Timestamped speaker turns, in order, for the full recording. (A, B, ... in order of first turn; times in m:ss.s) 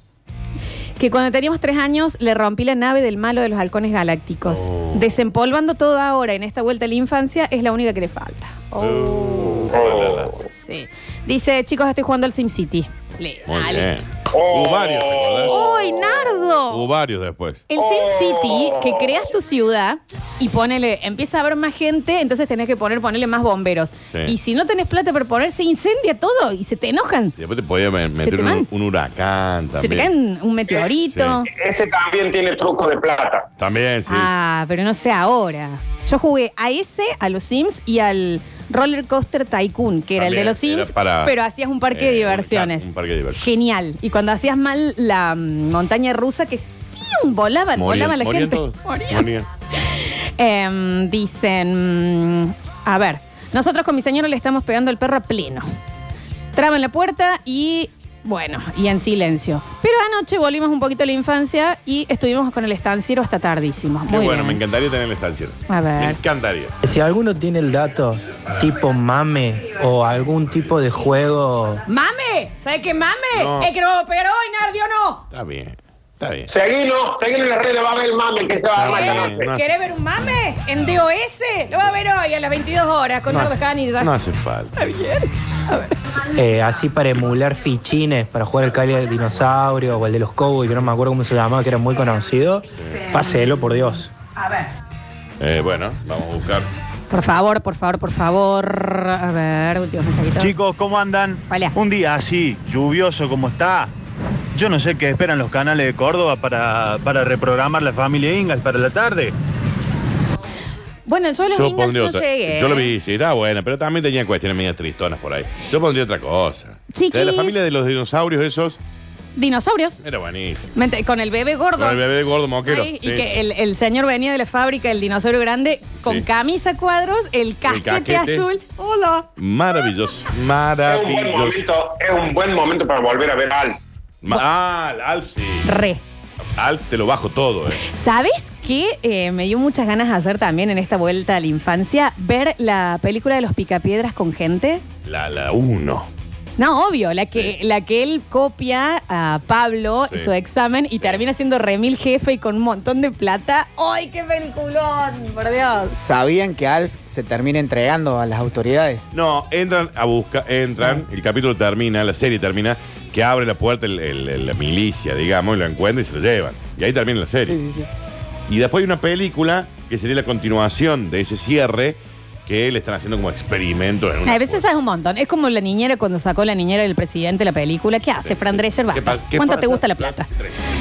0:01.0-0:09.7 A
0:04.5-0:05.1 B
0:08.8-0:10.3 B
0:09.7-0:10.4 C
0:10.6-0:13.9 A
0:13.5-0:15.8 B
0:14.3-0:15.7 C
0:15.4-0:16.8 A
0:16.5-0:17.6 B
0:17.7-0:27.3 A
0:17.8-0:19.1 C
0:27.4-0:30.1 B
0:28.2-0:28.7 A
0:29.8-0:31.5 A
0:31.1-0:31.4 B
0:31.5-0:33.5 C
0:33.6-0:34.3 B
0:34.0-0:49.3 A
0:40.2-0:41.4 B
0:41.9-0:43.4 B
0:47.8-0:49.5 B
0:49.9-0:55.7 A
0:56.5-1:04.6 A
1:04.1-1:06.7 B
1:05.7-1:06.2 A
1:06.8-1:11.8 D
1:11.9-1:15.2 A
1:13.3-1:13.7 B
1:15.3-1:16.5 B
1:16.5-1:19.5 C
1:18.8-1:19.6 B
1:18.8-1:24.1 A
1:23.3-1:24.7 B
1:24.8-1:26.0 A
1:26.3-1:34.1 D
1:35.4-1:36.7 B
1:37.1-1:40.6 A
1:40.4-1:43.9 E
1:41.5-1:41.7 A
1:44.5-1:49.3 E
1:51.1-1:52.9 A
1:51.5-1:58.8 B
1:56.9-1:57.6 A
1:59.4-2:00.0 A
2:00.0-2:00.7 B
2:00.7-2:02.0 A
2:01.8-2:03.3 B
2:02.6-2:09.2 A
2:07.7-2:08.5 B
2:09.4-2:11.6 B
2:10.8-2:13.8 C
2:14.2-2:15.7 B
2:15.6-2:16.0 A
2:16.6-2:17.8 B
2:17.8-2:24.8 A
2:25.0-2:26.1 B
2:26.6-2:35.9 A
2:35.9-2:39.1 F
2:39.1-2:47.6 B
2:47.5-2:47.9 F
2:48.5-2:54.6 B
2:54.2-3:00.3 A
2:58.2-3:00.6 B